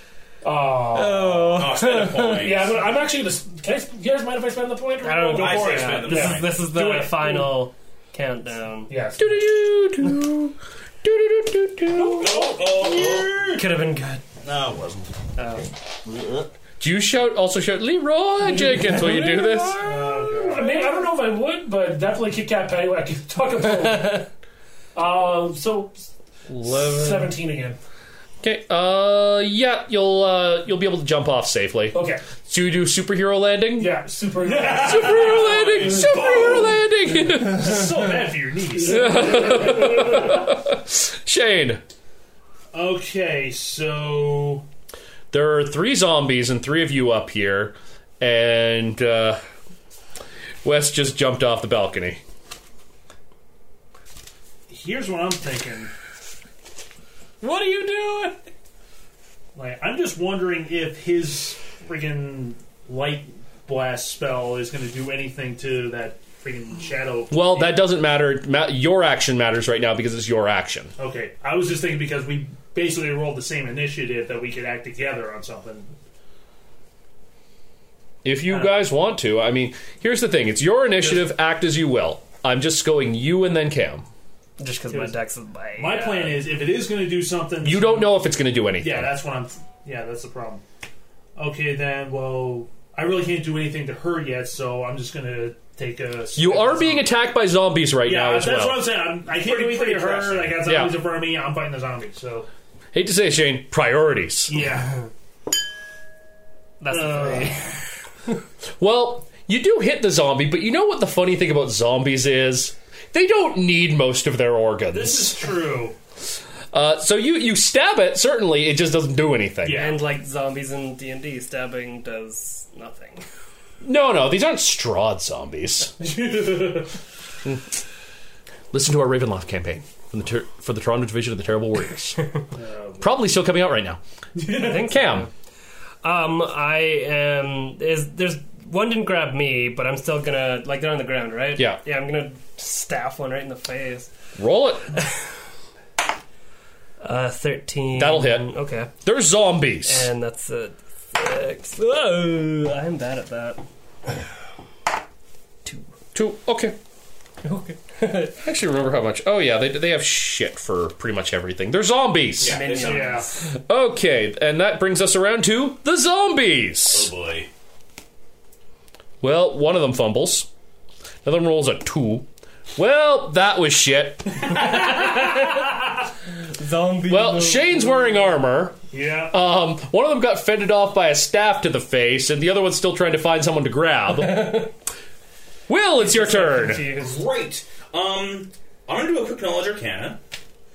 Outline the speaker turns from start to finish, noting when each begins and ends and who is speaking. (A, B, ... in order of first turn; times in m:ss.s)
0:00.4-0:01.6 A
0:00.9-0:02.5 B
0:01.5-0:02.8 C
0:02.3-0:07.5 A
0:05.0-0:09.0 B
0:05.3-0:06.6 C
0:08.9-0:09.4 A
0:09.2-0:12.3 D
0:11.9-0:13.0 A
0:12.2-0:13.6 C
0:13.2-0:14.2 B
0:14.4-0:15.1 C
0:15.4-0:15.7 B
0:16.8-0:20.0 D
0:18.5-0:24.3 A
0:19.8-0:21.0 E
0:24.9-0:27.8 A
0:26.5-0:27.4 D
0:28.4-0:34.0 D
0:31.9-0:32.2 A
0:33.8-0:36.4 A
0:34.4-0:36.8 E
0:34.7-0:37.9 D
0:37.3-0:39.6 E
0:38.8-0:40.2 A
0:38.9-0:41.8 D
0:42.7-0:44.6 E
0:45.3-0:49.4 D
0:50.6-0:52.2 D
0:54.7-0:55.9 E
0:57.4-0:58.4 B
0:59.5-1:07.8 E
1:07.3-1:10.9 D
1:11.0-1:15.9 E
1:18.2-1:24.0 D
1:18.5-1:18.8 E
1:21.0-1:21.3 E
1:24.6-1:26.4 B
1:24.9-1:25.2 E
1:25.8-1:28.2 E
1:27.6-1:29.1 D
1:28.8-1:30.6 E
1:31.4-1:37.1 E
1:36.3-1:38.9 D
1:38.0-1:42.5 E
1:39.3-1:40.6 C
1:40.6-1:41.0 D
1:42.9-1:44.6 D
1:44.5-1:45.0 E
1:46.8-1:47.6 B
1:46.8-1:47.6 E
1:48.8-1:55.4 D
1:54.9-1:56.0 E
1:56.7-1:59.9 D
1:59.6-2:00.0 E
1:59.7-2:03.2 B
2:03.8-2:06.1 D
2:06.0-2:06.9 E
2:08.7-2:12.3 D
2:12.5-2:13.0 E
2:13.0-2:14.0 D
2:14.4-2:14.8 E
2:14.4-2:15.3 B
2:14.7-2:15.3 D
2:16.0-2:24.1 B
2:24.4-2:25.0 D
2:27.0-2:28.9 B
2:27.9-2:30.1 D
2:29.8-2:33.6 B
2:36.1-2:36.8 D
2:37.4-2:38.3 B
2:38.3-2:42.6 D
2:42.4-2:43.2 C
2:42.4-2:43.5 B
2:42.8-2:43.3 E
2:43.5-2:47.1 D
2:46.9-2:47.5 C
2:49.2-2:50.5 D
2:51.2-2:54.8 D
2:54.5-2:55.7 B
2:56.5-2:58.2 B
2:57.1-2:58.8 D
2:58.9-2:59.3 E
2:59.3-3:04.7 D
3:04.1-3:04.7 B
3:05.7-3:06.8 D
3:06.0-3:07.2 B
3:06.8-3:10.2 C